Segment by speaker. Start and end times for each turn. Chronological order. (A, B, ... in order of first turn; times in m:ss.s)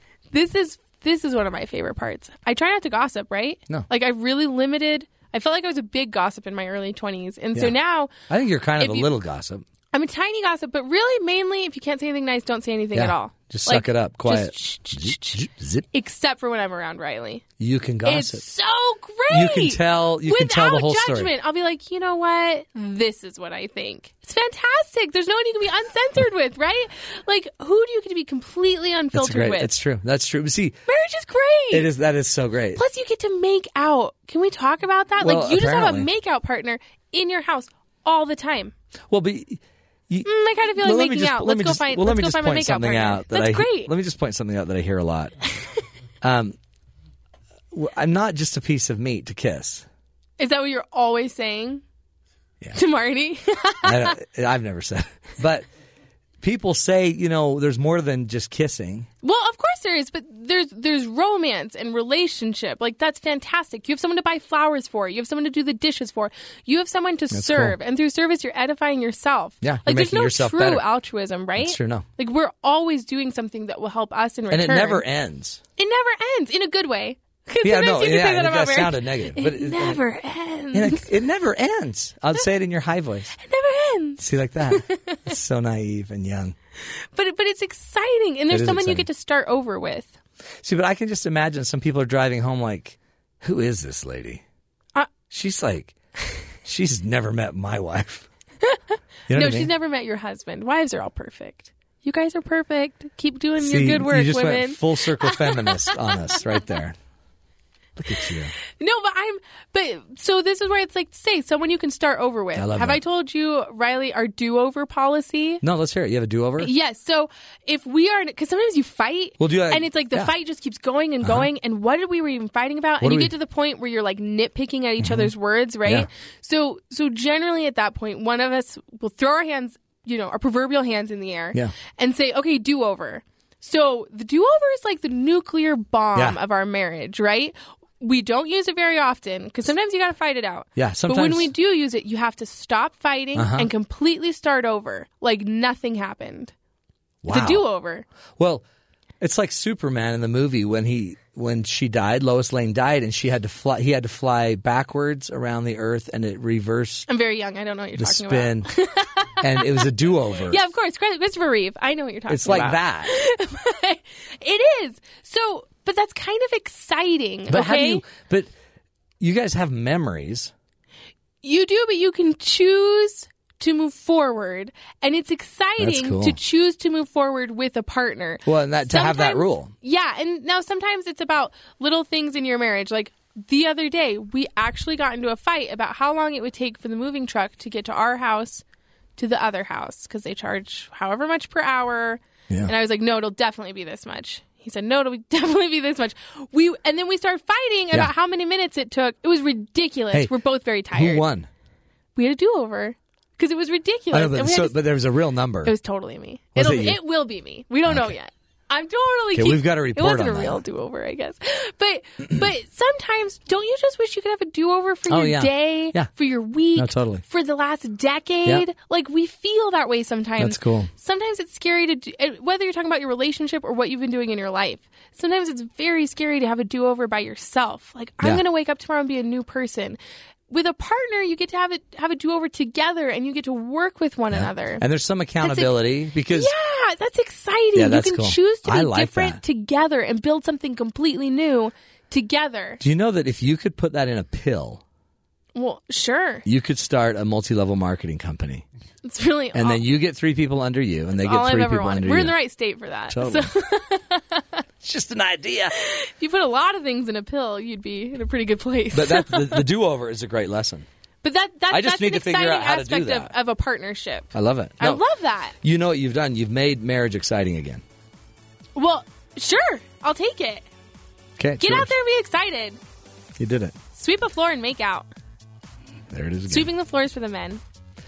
0:00.3-0:08.2 A
0:08.3-0:09.6 B
0:08.8-0:09.1 A
0:09.9-0:17.4 A
0:12.9-0:15.9 B
0:17.6-0:18.4 B
0:18.0-0:29.7 A
0:19.3-0:21.3 B
0:29.1-0:30.8 B
0:30.9-0:31.9 A
0:31.7-0:32.8 B
0:32.7-0:38.7 A
0:35.2-0:36.1 B
0:39.1-0:45.4 B
0:40.2-0:43.9 A
0:46.2-0:46.6 B
0:47.7-0:49.9 B
0:50.4-0:51.8 A
0:52.7-0:54.2 A
0:53.8-0:55.7 B
0:56.4-0:59.1 B
0:59.2-1:15.0 A
1:07.3-1:07.8 B
1:09.6-1:10.8 B
1:11.6-1:12.1 B
1:14.5-1:15.6 B
1:15.8-1:21.2 A
1:17.6-1:20.0 B
1:20.7-1:23.3 B
1:23.3-1:25.2 A
1:24.2-1:26.6 B
1:27.1-1:30.2 A
1:28.5-1:29.1 B
1:30.6-1:34.4 B
1:35.3-1:36.0 B
1:36.6-1:38.3 B
1:39.3-1:39.7 B
1:39.3-1:46.4 A
1:43.6-1:47.0 B
1:48.0-1:48.5 B
1:48.2-1:55.6 A
1:52.6-1:53.0 B
1:55.6-1:56.7 B
1:56.6-2:26.5 A
1:59.4-2:00.3 B
2:01.2-2:01.5 B
2:03.0-2:03.3 B
2:05.0-2:05.3 B
2:20.8-2:21.5 B
2:23.4-2:23.7 B
2:27.2-2:27.6 B
2:27.3-2:28.0 A
2:28.4-2:28.6 B
2:29.2-2:37.1 B
2:37.1-2:39.9 A
2:38.0-2:38.7 B
2:39.4-2:40.6 B
2:40.4-2:48.0 A
2:42.3-2:43.1 B
2:47.5-2:48.5 B
2:49.2-2:50.5 B
2:51.4-3:08.6 A
2:55.8-2:56.4 B
2:58.4-2:59.7 B
3:09.2-3:21.3 A
3:20.9-3:21.5 B
3:22.2-3:24.8 A
3:24.1-3:25.7 B
3:25.6-3:50.0 A
3:26.6-3:27.0 B
3:27.9-3:28.1 B
3:29.3-3:30.6 B
3:35.1-3:36.1 B
3:36.7-3:37.2 B
3:40.4-3:40.9 B
3:50.5-3:54.8 A
3:54.3-3:56.5 B
3:55.4-3:55.7 A
3:56.3-4:02.8 A
3:57.7-3:59.4 B
4:02.8-4:04.8 B
4:05.6-4:06.4 A
4:06.4-4:08.6 B
4:09.0-4:09.8 A
4:09.5-4:12.4 B
4:11.2-4:14.6 A
4:13.1-4:13.5 B
4:14.8-4:15.7 B
4:15.7-4:19.7 A
4:18.9-4:20.9 B
4:21.2-4:25.6 A
4:21.7-4:23.3 B
4:24.3-4:25.0 B
4:25.6-4:27.8 B
4:28.8-4:30.7 A
4:31.4-4:31.9 B
4:31.6-4:32.8 A
4:33.4-4:33.7 B
4:33.9-4:35.1 A
4:36.1-4:36.7 B
4:36.5-4:37.6 A